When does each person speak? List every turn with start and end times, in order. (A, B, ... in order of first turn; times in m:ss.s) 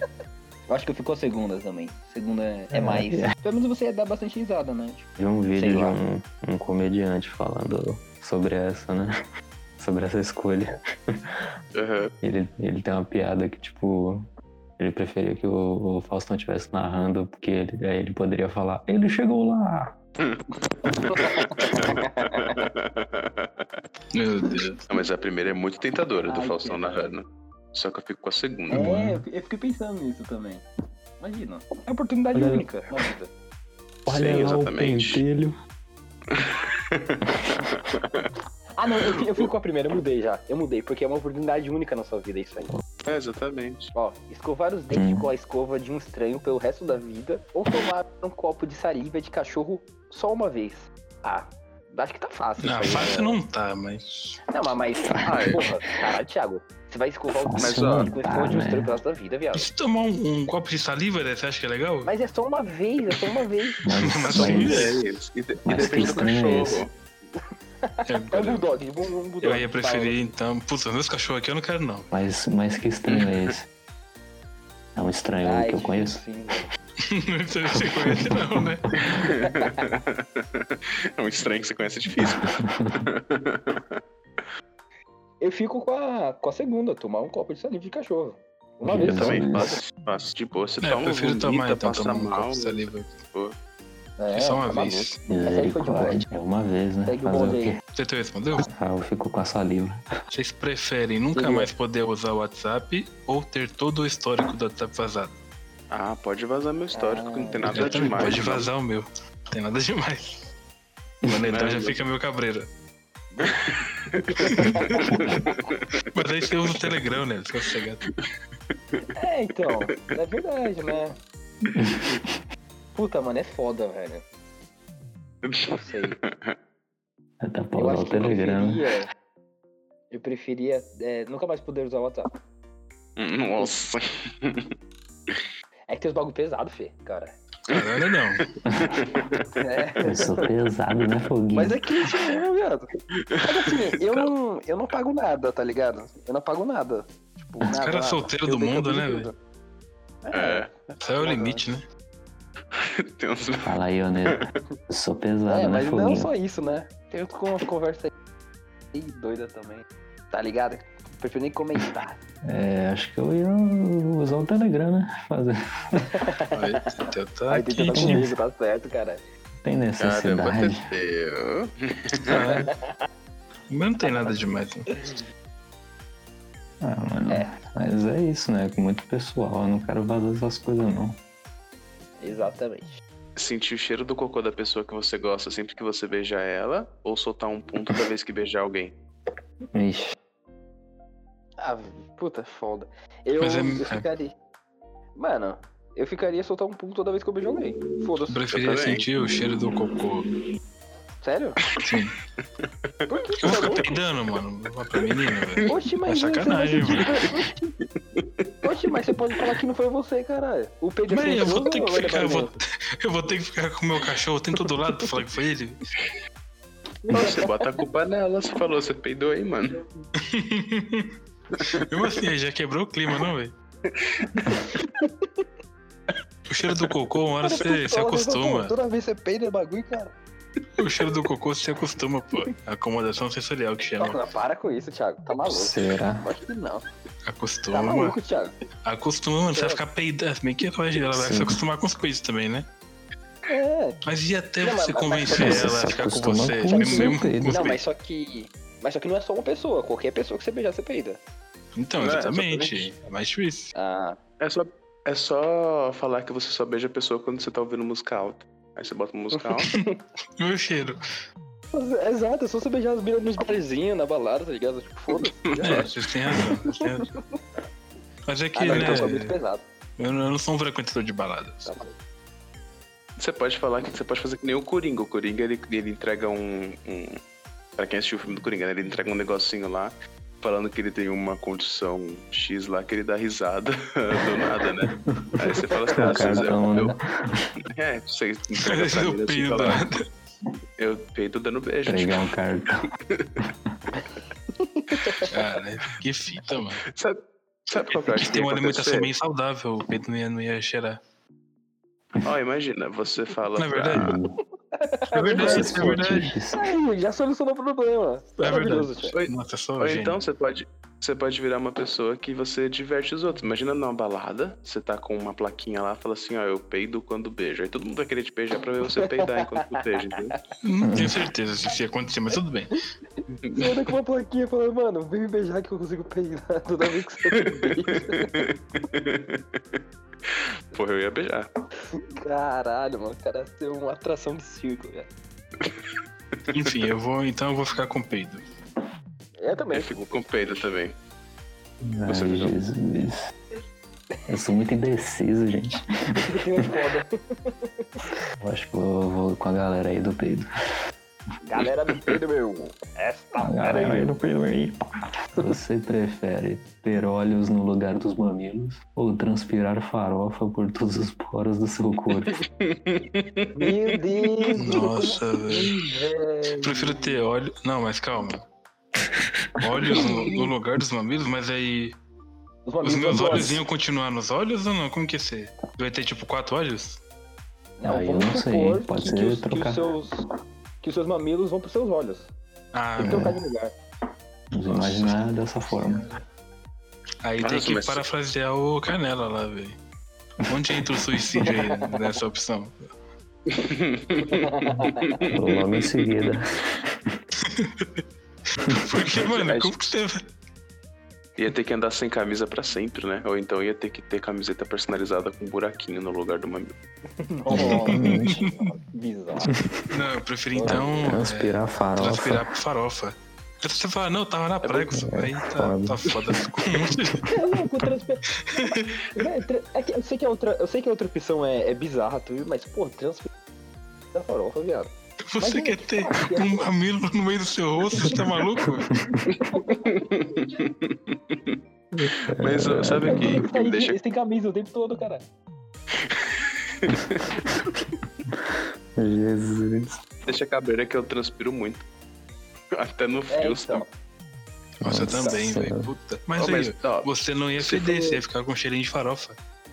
0:00.7-0:06.0 A
0:02.7-0:03.3 B
0:05.2-0:09.1 B
0:09.8-0:10.7 B
0:11.8-0:12.1 C
0:12.2-0:14.2 B
0:14.8-0:19.9 B
0:21.1-0:23.3 C
0:21.1-0:22.6 A
0:24.1-0:24.8 D
0:24.9-0:28.9 C
0:26.3-0:27.2 A
0:28.7-0:30.6 A
0:28.7-0:29.2 B
0:31.2-0:33.3 A
0:32.3-0:32.6 B
0:34.1-0:35.5 B
0:34.1-0:35.2 C
0:37.1-0:38.2 C
0:38.8-0:42.7 A
0:43.0-0:43.9 C
0:44.0-0:53.4 A
0:44.9-0:45.3 B
0:52.6-0:54.4 D
0:54.5-0:59.7 A
0:55.0-0:55.6 B
0:55.3-0:55.6 C
0:57.3-0:58.9 B
0:57.6-0:58.1 C
0:59.5-1:02.1 D
1:02.0-1:03.8 A
1:03.8-1:05.0 B
1:04.0-1:05.0 D
1:04.3-1:06.9 C
1:05.6-1:06.8 B
1:07.8-1:10.3 A
1:08.1-1:08.7 D
1:09.4-1:12.1 D
1:12.1-1:13.7 B
1:13.1-1:13.5 C
1:15.0-1:16.2 B
1:15.4-1:16.7 A
1:17.1-1:18.8 D
1:17.8-1:18.2 B
1:19.1-1:24.0 C
1:25.4-1:29.8 A
1:28.8-1:29.8 B
1:29.1-1:33.5 C
1:30.8-1:33.2 D
1:34.2-1:36.2 A
1:34.3-1:35.2 D
1:35.3-1:37.8 B
1:37.1-1:37.8 A
1:38.0-1:38.7 D
1:38.7-1:40.0 B
1:40.3-1:45.4 D
1:41.4-1:41.7 A
1:45.9-1:48.7 C
1:46.9-1:47.9 A
1:47.7-1:50.4 D
1:51.2-1:52.7 D
1:51.3-1:52.0 C
1:53.4-1:56.2 C
1:54.4-1:54.8 D
1:54.5-1:54.8 A
1:56.1-1:58.0 D
1:59.2-2:01.2 A
2:01.8-2:02.4 B
2:02.9-2:04.2 A
2:05.5-2:06.6 C
2:05.7-2:06.2 A
2:07.4-2:08.8 B
2:07.8-2:09.1 A
2:10.1-2:12.3 A
2:13.2-2:14.6 C
2:15.9-2:17.4 A
2:17.7-2:18.5 D
2:18.6-2:19.4 C
2:19.6-2:20.4 A
2:20.0-2:21.8 B
2:21.5-2:22.9 A
2:23.2-2:23.5 C
2:23.4-2:29.4 A
2:24.0-2:24.3 C
2:27.7-2:29.3 D
2:30.3-2:30.7 A
2:30.3-2:30.7 C
2:31.0-2:31.8 D
2:31.2-2:31.6 A
2:32.8-2:33.7 C
2:33.7-2:36.3 B
2:35.5-2:38.1 A
2:38.9-2:42.2 A
2:42.5-2:46.0 B
2:46.1-2:46.8 A
2:46.5-2:48.2 D
2:47.5-2:49.2 A
2:48.0-2:48.3 B
2:49.6-2:50.8 B
2:50.0-2:52.4 C
2:52.2-2:52.7 D
2:52.5-2:53.0 A
2:53.7-2:54.9 D
2:56.8-3:01.2 B
3:02.2-3:03.0 A
3:03.4-3:08.9 C
3:09.8-3:10.1 B
3:11.6-3:14.4 A
3:13.4-3:14.0 D
3:15.2-3:18.4 A
3:18.3-3:20.3 D
3:18.5-3:19.0 C
3:21.2-3:21.6 A
3:21.8-3:22.1 D
3:23.1-3:23.9 A
3:23.1-3:23.8 C
3:23.4-3:27.1 D
3:25.7-3:27.7 A
3:28.6-3:32.5 A
3:31.1-3:35.8 D
3:37.1-3:37.4 A
3:37.1-3:39.8 C
3:40.2-3:41.1 D
3:41.8-3:43.5 D
3:43.9-3:44.6 C
3:44.6-3:45.1 A
3:46.5-3:48.7 D
3:47.4-3:50.1 A
3:50.8-3:54.2 D
3:54.0-3:56.9 A
3:55.5-3:56.2 B
3:57.2-3:58.2 D
3:57.7-3:58.6 A
3:58.8-4:02.7 D
3:59.5-3:59.8 A
4:01.1-4:01.6 B
4:03.5-4:04.0 A
4:04.0-4:07.8 D
4:04.6-4:05.8 A
4:05.4-4:07.6 B
4:06.7-4:11.2 A
4:11.8-4:13.7 D
4:12.0-4:12.9 C
4:13.8-4:14.2 A
4:14.4-4:19.7 C
4:19.4-4:19.9 A
4:20.4-4:21.0 D
4:21.7-4:25.8 A
4:25.1-4:25.9 C
4:25.6-4:27.1 D
4:28.3-4:29.3 D
4:28.6-4:29.6 A
4:28.7-4:29.2 C
4:30.0-4:31.8 D
4:31.7-4:31.9 A
4:33.2-4:37.2 C
4:37.8-4:46.9 C
4:45.1-4:45.4 B
4:45.8-4:47.0 A
4:46.0-4:47.5 B
4:47.7-4:49.8 C
4:48.6-4:50.1 D
4:50.8-4:52.3 C
4:51.9-4:52.8 B
4:53.4-4:53.7 B
4:54.6-4:55.3 A
4:55.3-4:56.8 D
4:57.7-4:59.1 C
4:57.9-5:01.0 D
5:02.2-5:04.2 C
5:03.6-5:04.2 D
5:04.0-5:04.4 B
5:04.8-5:06.0 A
5:05.1-5:06.4 D
5:05.4-5:06.6 B
5:06.5-5:09.2 A
5:08.4-5:10.2 D
5:09.1-5:20.3 C
5:20.6-5:22.8 D
5:20.8-5:21.1 B
5:23.4-5:23.8 C
5:23.5-5:28.3 A
5:27.4-5:31.5 C
5:32.0-5:35.1 A
5:36.5-5:38.5 D
5:39.4-5:40.2 A
5:39.7-5:41.0 C
5:41.8-5:43.2 B
5:42.1-5:42.6 C
5:44.3-5:45.8 B
5:46.3-5:48.1 A
5:48.4-5:50.5 B
5:51.5-5:54.1 A
5:53.4-5:54.8 B
5:55.3-6:02.4 B
6:02.3-6:03.8 C
6:03.6-6:07.3 A
6:04.6-6:05.7 D
6:06.6-6:08.4 D
6:09.4-6:10.3 B
6:09.6-6:12.0 D
6:10.1-6:10.5 A
6:12.6-6:13.6 A
6:12.8-6:17.0 D
6:13.1-6:13.6 B
6:17.8-6:20.2 A
6:17.8-6:19.8 B
6:20.8-6:22.3 A
6:22.7-6:23.3 D
6:23.0-6:23.4 B
6:23.0-6:23.8 A
6:24.5-6:26.1 B
6:24.7-6:26.2 D
6:27.2-6:29.8 D
6:27.4-6:28.0 C
6:30.5-6:32.9 D
6:33.5-6:35.3 C
6:34.4-6:35.2 A
6:35.3-6:37.2 B
6:37.6-6:37.9 D
6:38.6-6:40.2 D
6:39.3-6:39.7 C
6:41.4-6:46.7 C
6:47.3-6:49.5 A
6:47.5-6:48.4 B
6:47.6-6:48.4 D
6:49.9-6:57.3 D
6:50.6-6:50.9 A
6:50.7-6:52.4 B
6:54.6-6:55.0 C
6:54.9-6:56.1 B
6:57.3-7:03.3 A
6:58.5-6:59.0 D
7:04.1-7:06.7 A
7:05.3-7:08.9 D
7:09.2-7:09.8 A
7:09.9-7:11.6 C
7:12.0-7:13.4 B
7:12.4-7:14.0 C
7:13.1-7:15.2 A
7:16.8-7:17.4 C
7:19.0-7:20.0 B
7:20.3-7:21.8 C
7:22.8-7:23.8 C
7:23.3-7:23.9 A
7:24.8-7:29.4 D
7:24.8-7:25.9 B
7:25.1-7:25.4 A
7:26.4-7:28.2 C